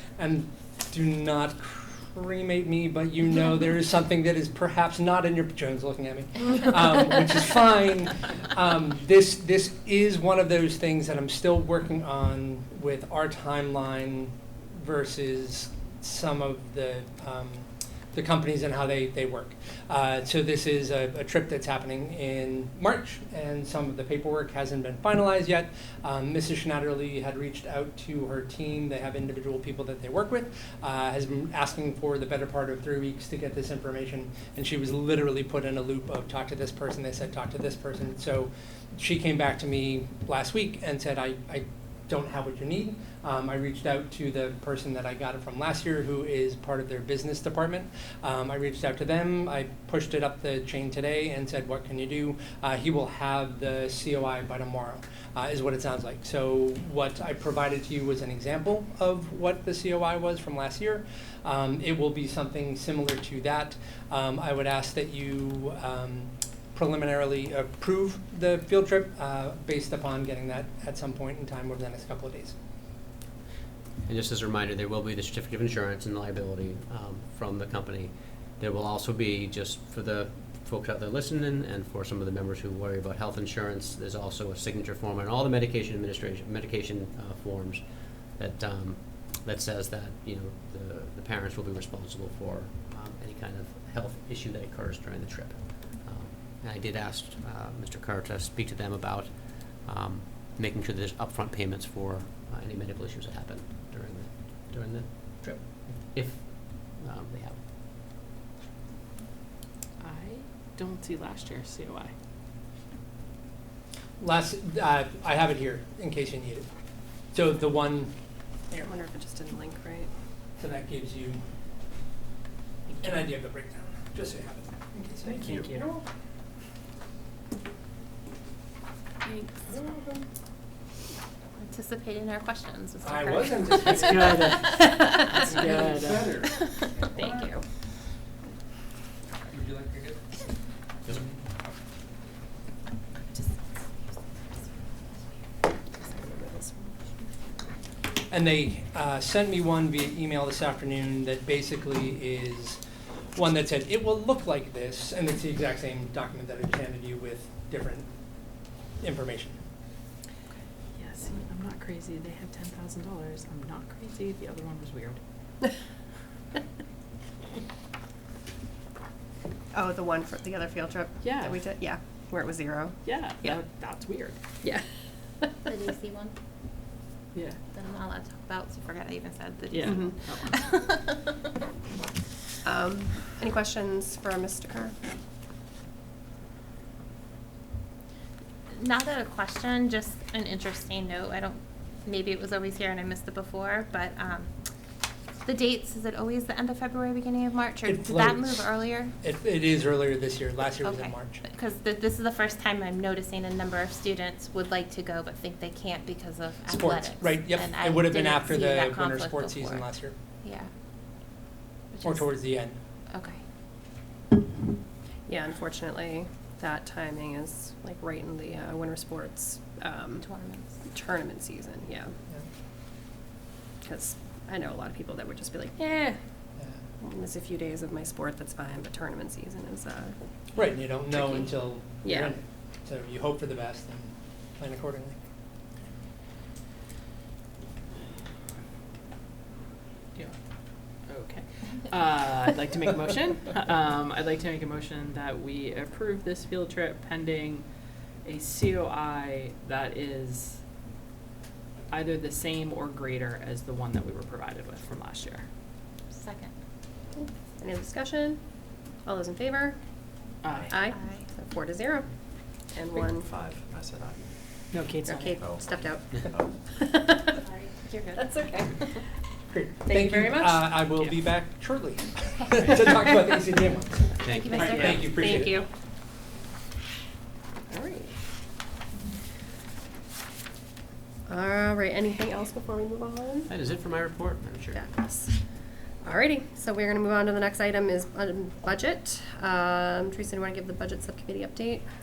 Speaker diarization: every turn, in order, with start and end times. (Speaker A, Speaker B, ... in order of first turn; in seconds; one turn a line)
Speaker A: 0.2-72.5
Speaker B: 74.0-107.6
Speaker C: 110.0-112.1
Speaker A: 114.2-116.7
Speaker A: 117.3-118.1
Speaker D: 118.8-120.1
Speaker A: 120.6-121.4
Speaker A: 123.0-125.6
Speaker C: 125.2-125.9
Speaker D: 129.4-130.0
Speaker E: 131.6-135.7
Speaker A: 133.0-137.5
Speaker C: 133.9-136.3
Speaker E: 136.4-137.6
Speaker A: 139.5-140.3
Speaker B: 141.0-141.3
Speaker A: 141.1-141.4
Speaker D: 146.0-147.0
Speaker A: 148.3-152.8
Speaker A: 153.3-158.1
Speaker A: 159.0-159.6
Speaker C: 160.9-165.2
Speaker D: 169.7-173.6
Speaker C: 171.2-171.6
Speaker C: 173.0-174.4
Speaker E: 175.6-176.3
Speaker C: 177.3-177.6
Speaker E: 177.7-181.5
Speaker C: 179.7-180.6
Speaker D: 179.8-180.3
Speaker D: 182.6-184.9
Speaker E: 188.7-194.5
Speaker E: 195.4-199.1
Speaker A: 197.8-201.4
Speaker E: 200.8-210.7
Speaker A: 206.7-210.1
Speaker E: 211.9-212.5
Speaker A: 212.0-212.8
Speaker E: 213.1-213.4
Speaker D: 215.3-220.3
Speaker E: 220.2-220.7
Speaker D: 220.9-222.1
Speaker D: 223.8-226.2
Speaker D: 227.0-230.1
Speaker A: 230.5-235.2
Speaker D: 231.1-231.4
Speaker D: 232.0-232.3
Speaker C: 241.1-247.6
Speaker C: 248.2-250.6
Speaker C: 251.9-255.4
Speaker E: 256.1-256.5
Speaker D: 257.1-258.4
Speaker D: 259.0-259.8
Speaker C: 260.4-260.8
Speaker F: 260.4-260.7
Speaker D: 260.7-262.1
Speaker E: 260.8-261.3
Speaker D: 262.7-263.3
Speaker F: 263.0-266.6
Speaker C: 264.7-265.4
Speaker D: 265.1-267.4
Speaker E: 267.4-268.2
Speaker D: 268.1-269.0
Speaker A: 269.5-275.6
Speaker E: 269.9-270.4
Speaker B: 274.2-275.5
Speaker E: 274.3-275.6
Speaker D: 274.6-275.6
Speaker D: 277.7-278.1
Speaker D: 281.3-283.5
Speaker B: 283.5-284.9
Speaker D: 284.7-285.3
Speaker D: 286.0-291.8